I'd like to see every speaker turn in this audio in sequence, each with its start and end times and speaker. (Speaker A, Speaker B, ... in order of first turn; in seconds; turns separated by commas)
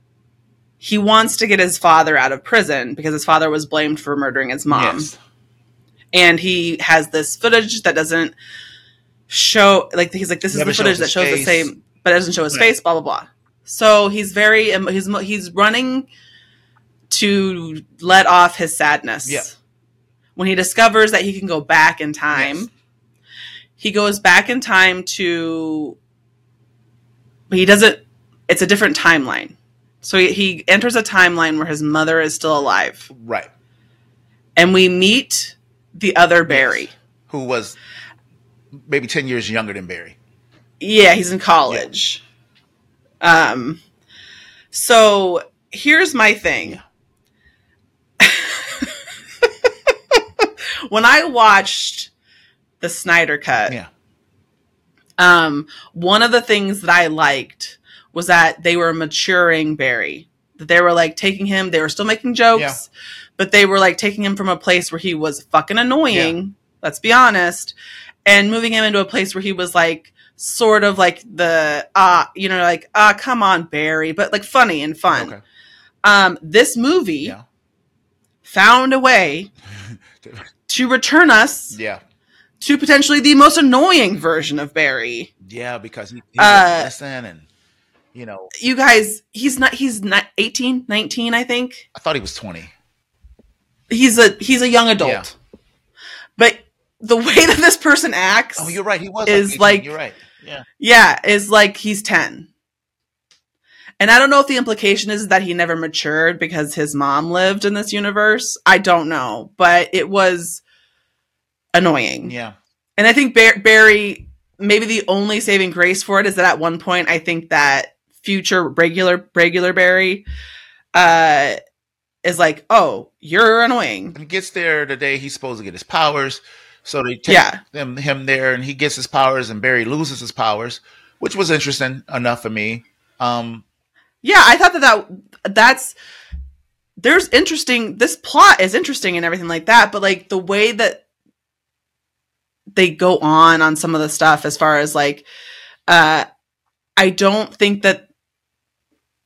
Speaker A: 0.8-5.1, Speaker B: 4.7-5.2, Speaker A: 6.1-8.3, Speaker A: 9.3-16.1, Speaker B: 10.5-11.7, Speaker A: 17.1-19.5, Speaker A: 20.4-22.7, Speaker B: 22.3-22.7, Speaker A: 23.8-26.0, Speaker A: 27.5-33.1, Speaker B: 33.1-33.5, Speaker A: 34.6-36.9, Speaker B: 36.5-37.8, Speaker B: 38.9-40.1, Speaker A: 40.8-42.2, Speaker A: 43.2-43.8, Speaker A: 44.7-46.8, Speaker A: 48.2-52.1, Speaker A: 52.8-53.8, Speaker A: 55.2-67.7, Speaker A: 68.2-75.3, Speaker B: 75.1-75.4, Speaker A: 76.0-77.3, Speaker A: 78.4-79.5, Speaker A: 80.7-81.8, Speaker B: 81.7-82.0, Speaker A: 82.6-85.3, Speaker B: 85.4-87.5, Speaker A: 86.4-86.9, Speaker B: 88.1-88.5, Speaker A: 88.5-91.8, Speaker B: 91.9-92.7, Speaker A: 93.9-95.3, Speaker B: 95.0-95.2, Speaker A: 96.4-99.9, Speaker B: 98.6-100.6, Speaker A: 100.8-102.5, Speaker A: 104.0-110.6, Speaker A: 111.7-112.3, Speaker B: 112.2-112.5, Speaker A: 113.0-120.2, Speaker A: 120.9-121.6, Speaker A: 122.2-124.1, Speaker B: 124.1-133.6, Speaker A: 127.3-127.6, Speaker A: 134.2-135.9, Speaker A: 137.0-141.0, Speaker A: 142.7-145.2, Speaker A: 145.9-146.2, Speaker A: 147.0-148.0